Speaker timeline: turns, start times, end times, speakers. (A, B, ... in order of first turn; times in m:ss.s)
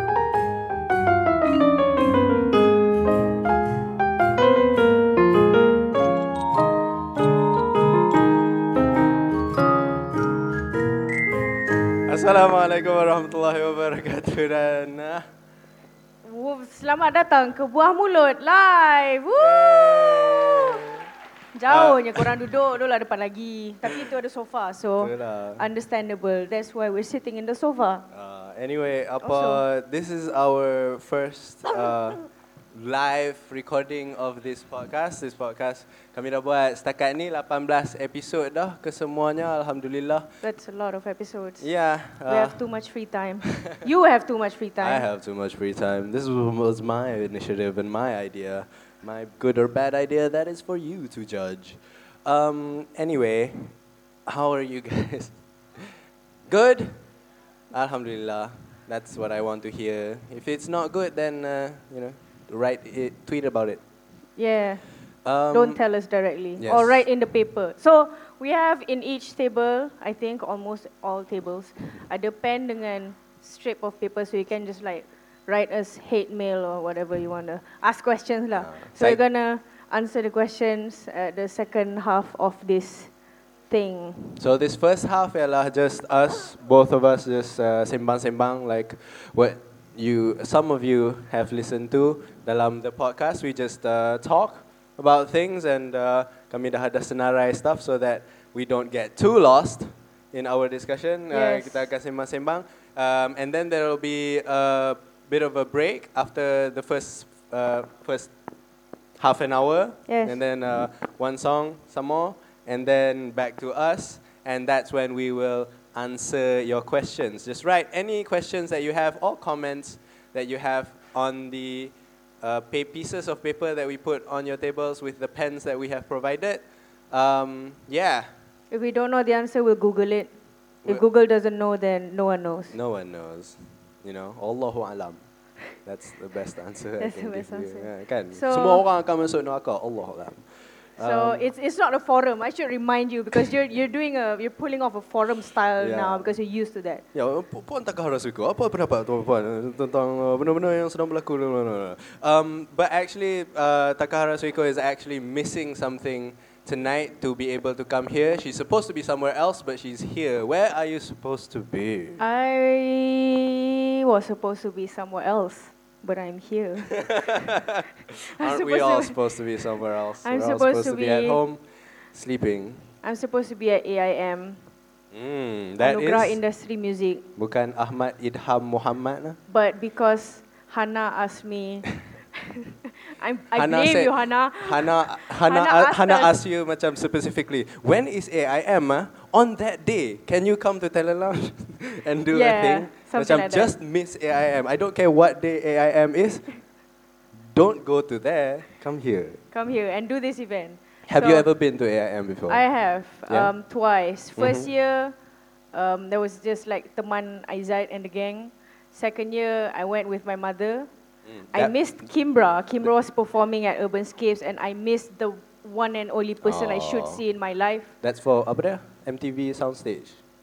0:12.0-0:15.2 A
0:16.2-0:20.8 B
0:19.4-0:21.0 A
0:21.5-0:28.1 B
0:21.7-0:22.3 A
0:25.0-0:25.7 A
0:28.1-0:40.3 A
0:29.2-0:29.6 B
0:40.4-0:41.6 B
0:41.6-0:42.7 A
0:42.2-0:45.0 B
0:44.8-0:53.7 A
0:54.2-0:55.9 A
0:56.5-0:57.0 A
0:57.7-1:03.8 A
1:04.4-1:04.8 B
1:05.2-1:05.8 A
1:05.5-1:23.1 B
1:06.6-1:07.0 A
1:18.6-1:19.2 A
1:23.7-1:24.4 B
1:24.4-1:48.3 A
1:41.3-1:41.9 B
1:49.2-2:08.3 A
1:50.1-1:50.4 B
2:08.7-2:10.3 B
2:10.8-2:12.7 B
2:12.7-2:15.2 A
2:15.8-2:21.5 A
2:17.0-2:18.8 B
2:21.0-2:27.0 B
2:25.8-2:26.3 A
2:27.1-2:42.2 A
2:42.2-2:47.6 B
2:46.9-2:51.6 A
2:48.4-2:49.2 B
2:50.2-2:51.4 B
2:52.1-2:52.9 A
2:53.0-2:54.6 B
2:55.1-2:56.4 A
2:55.8-2:57.2 B
2:57.4-2:59.4 A
2:59.5-3:06.3 B
3:03.5-3:16.6 A
3:12.3-3:13.7 B
3:17.3-3:19.4 A
3:19.5-3:21.4 B
3:21.1-3:22.6 A
3:22.5-3:25.1 B
3:23.3-3:23.5 A
3:24.4-3:24.7 A
3:25.7-3:30.9 B
3:31.3-3:31.8 A
3:31.5-3:37.9 B
3:36.4-3:37.2 A
3:38.0-3:40.2 A